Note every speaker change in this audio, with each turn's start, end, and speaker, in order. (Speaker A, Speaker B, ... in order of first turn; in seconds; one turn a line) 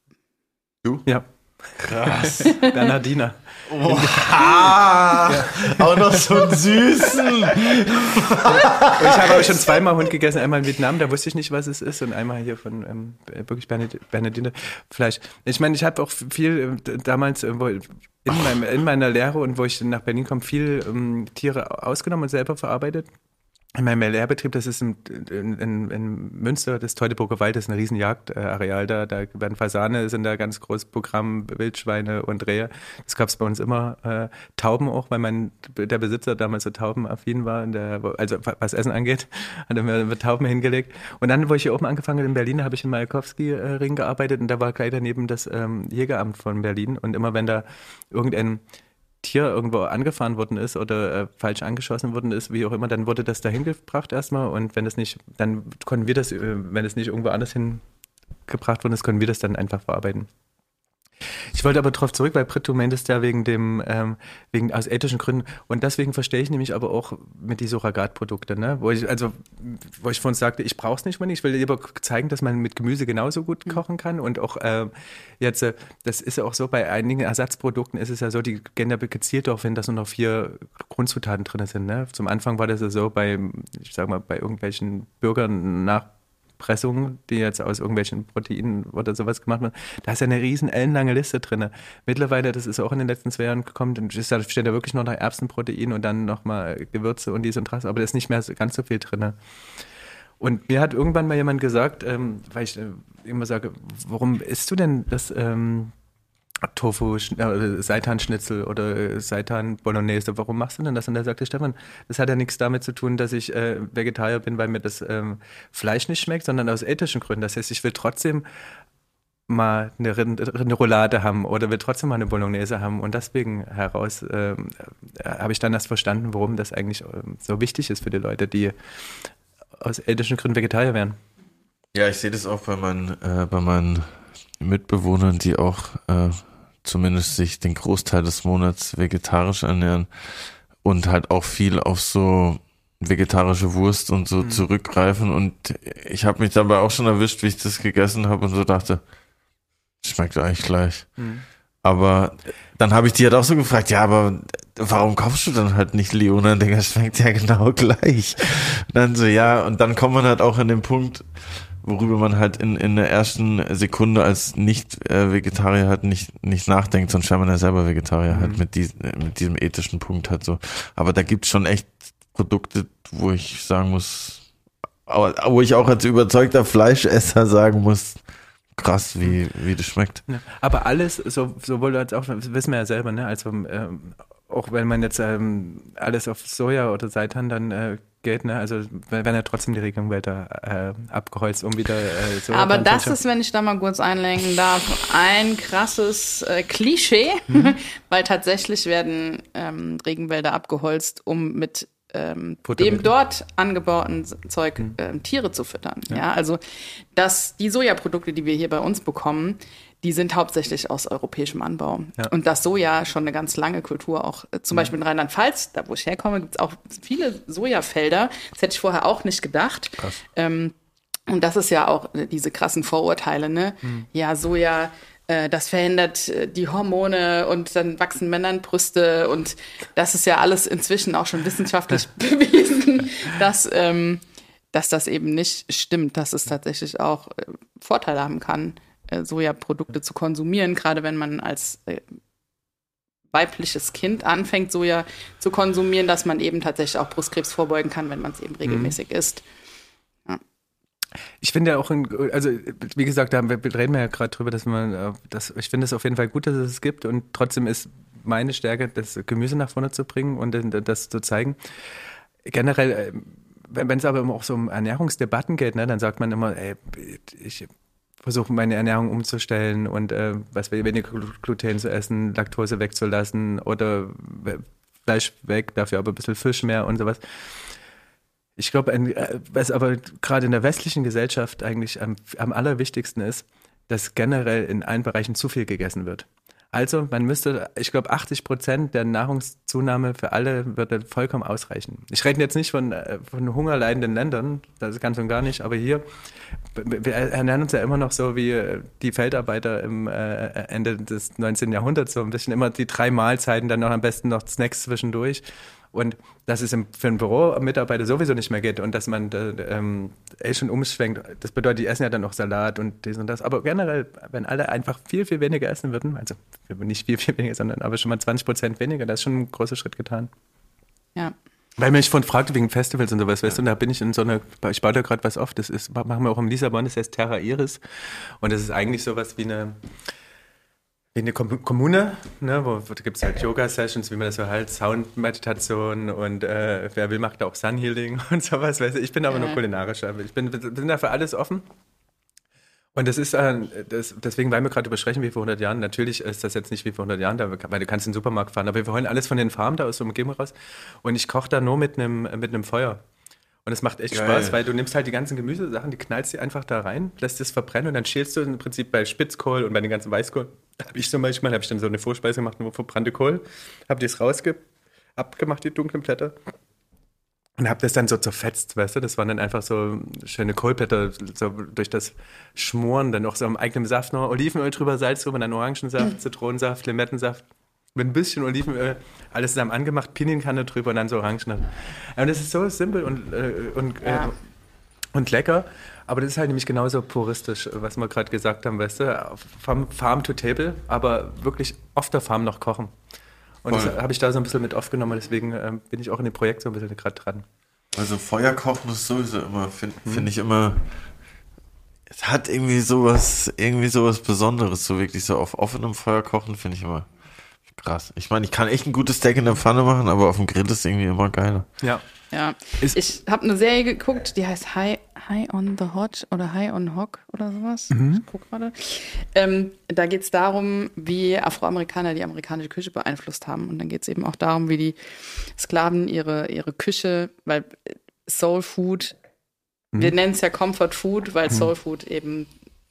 Speaker A: 1.1-6.2
Speaker B: 1.8-2.5
Speaker B: 3.7-9.6
Speaker A: 8.6-23.1
Speaker A: 23.8-48.6
Speaker A: 49.2-57.8
Speaker A: 58.5-60.3
Speaker A: 61.5-86.1
Speaker A: 86.6-99.3
Speaker A: 100.4-105.9
Speaker A: 106.7-118.4
Speaker A: 119.5-128.7
Speaker A: 129.8-131.2
Speaker B: 131.9-149.0
Speaker A: 144.4-144.6
Speaker B: 150.0-151.2
Speaker A: 151.2-151.4
Speaker B: 151.8-174.5
Speaker A: 168.3-168.6
Speaker B: 175.1-178.2
Speaker B: 178.7-180.2
Speaker A: 180.3-193.2
Speaker C: 192.5-220.7
Speaker A: 197.5-197.7
Speaker A: 202.6-203.1
Speaker C: 221.3-242.1
Speaker C: 243.3-249.4
Speaker A: 248.7-248.9
Speaker A: 251.4-261.6
Speaker A: 262.5-267.7
Speaker A: 268.2-277.2
Speaker A: 278.6-296.0
Speaker A: 296.7-320.3
Speaker A: 321.8-327.8
Speaker A: 328.4-329.8
Speaker A: 331.1-341.6
Speaker C: 339.3-339.6
Speaker A: 342.9-353.0
Speaker A: 353.6-366.3
Speaker B: 354.1-354.6
Speaker A: 367.6-377.4
Speaker A: 377.9-384.4
Speaker C: 384.0-384.3
Speaker A: 385.1-392.9
Speaker A: 393.6-397.4
Speaker B: 393.7-393.9
Speaker B: 397.9-400.8
Speaker B: 402.1-407.1
Speaker B: 407.7-411.7
Speaker C: 412.3-429.1
Speaker A: 417.9-418.2
Speaker C: 429.9-432.5